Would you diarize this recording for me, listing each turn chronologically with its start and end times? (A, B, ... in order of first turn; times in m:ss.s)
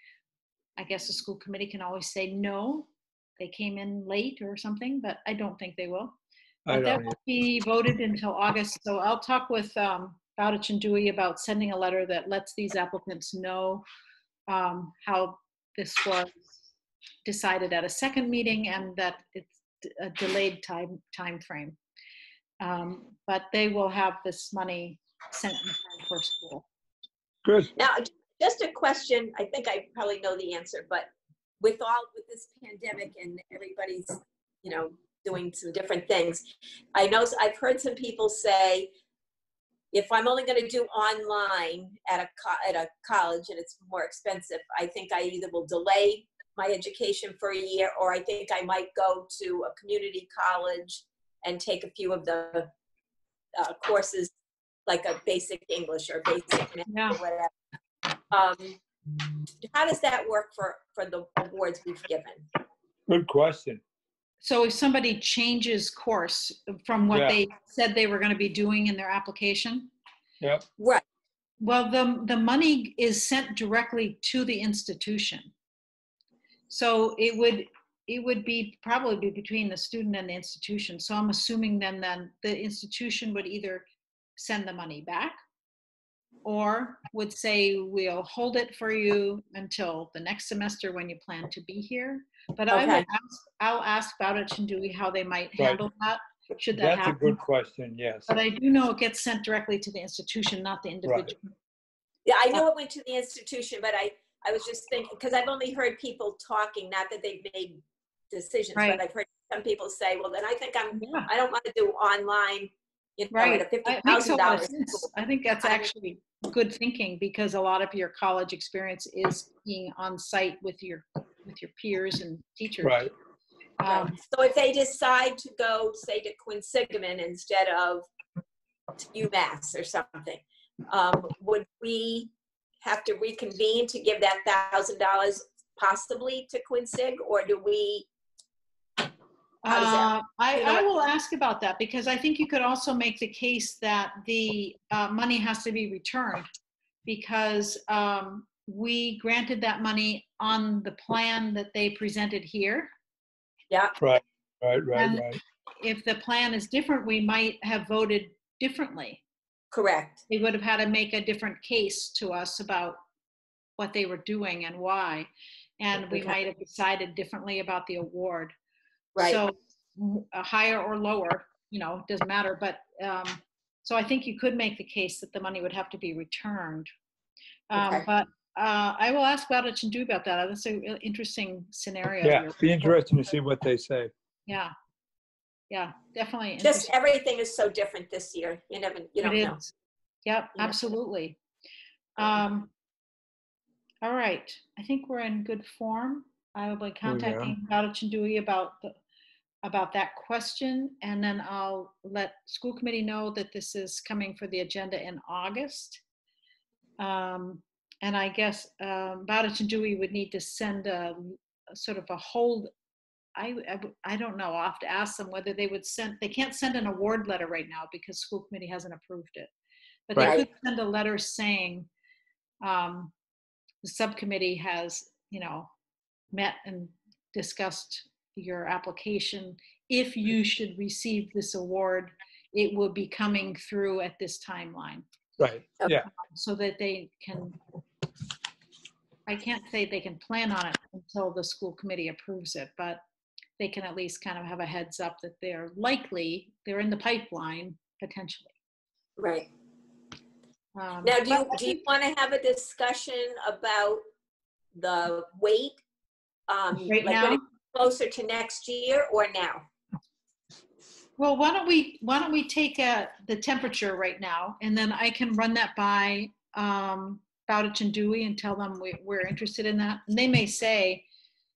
0:00.8-0:06.2 A
0:06.7-0:07.2 B
0:06.7-0:13.8 A
0:14.5-0:16.5 A
0:17.2-0:21.8 A
0:22.6-0:26.7 A
0:27.4-0:27.7 B
0:27.8-0:36.4 C
0:36.9-0:38.9 C
0:39.9-0:52.7 C
0:53.5-0:54.3 C
0:54.9-0:57.5 C
0:56.9-0:57.2 A
0:58.3-0:58.8 C
0:59.6-1:02.4 C
1:03.1-1:03.8 B
1:04.4-1:09.9 A
1:07.1-1:07.4 B
1:10.8-1:11.0 C
1:11.6-1:15.5 A
1:16.7-1:23.8 A
1:24.4-1:25.4 A
1:26.4-1:37.4 A
1:32.7-1:33.1 C
1:35.6-1:35.8 B
1:36.7-1:38.3 B
1:38.3-1:41.4 A
1:41.1-1:41.3 B
1:42.3-1:55.1 C
1:48.8-1:49.0 A
1:51.0-1:51.3 A
1:53.3-2:03.1 A
1:55.6-1:55.9 C
2:02.8-2:03.1 B
2:03.8-2:04.1 A
2:03.9-2:08.1 C
2:09.0-2:12.3 C
2:12.8-2:18.1 C
2:19.6-2:26.5 A
2:19.7-2:20.8 C
2:27.1-2:32.9 A
2:33.7-2:34.0 C
2:34.0-2:35.4 B
2:35.0-2:39.2 A
2:39.7-2:40.2 C
2:40.3-2:43.0 A
2:43.8-2:45.3 A
2:45.8-2:48.5 A
2:46.1-2:46.4 C
2:49.2-2:56.9 A
2:57.7-3:03.1 A
2:57.8-2:58.0 C
3:02.2-3:04.1 B
3:04.5-3:04.7 A
3:05.7-3:06.9 A
3:06.6-3:09.6 C
3:09.2-3:09.7 A
3:10.2-3:11.4 A
3:12.2-3:12.7 A
3:14.0-3:19.0 A
3:17.0-3:17.5 B
3:19.6-3:26.0 A
3:27.0-3:32.7 A
3:33.4-3:39.5 A
3:40.1-3:41.9 A
3:40.2-3:40.4 B
3:40.2-3:40.4 C
3:42.6-3:43.1 A
3:43.8-3:45.7 A
3:46.3-3:55.0 A
3:55.4-3:56.1 B
3:56.1-3:57.6 A
3:59.3-4:03.0 A
4:03.6-4:08.5 A
4:09.2-4:09.5 C
4:10.8-4:11.8 A
4:11.0-4:14.0 C
4:14.7-4:15.8 C
4:16.5-4:19.7 C
4:16.8-4:17.4 A
4:21.2-4:31.0 A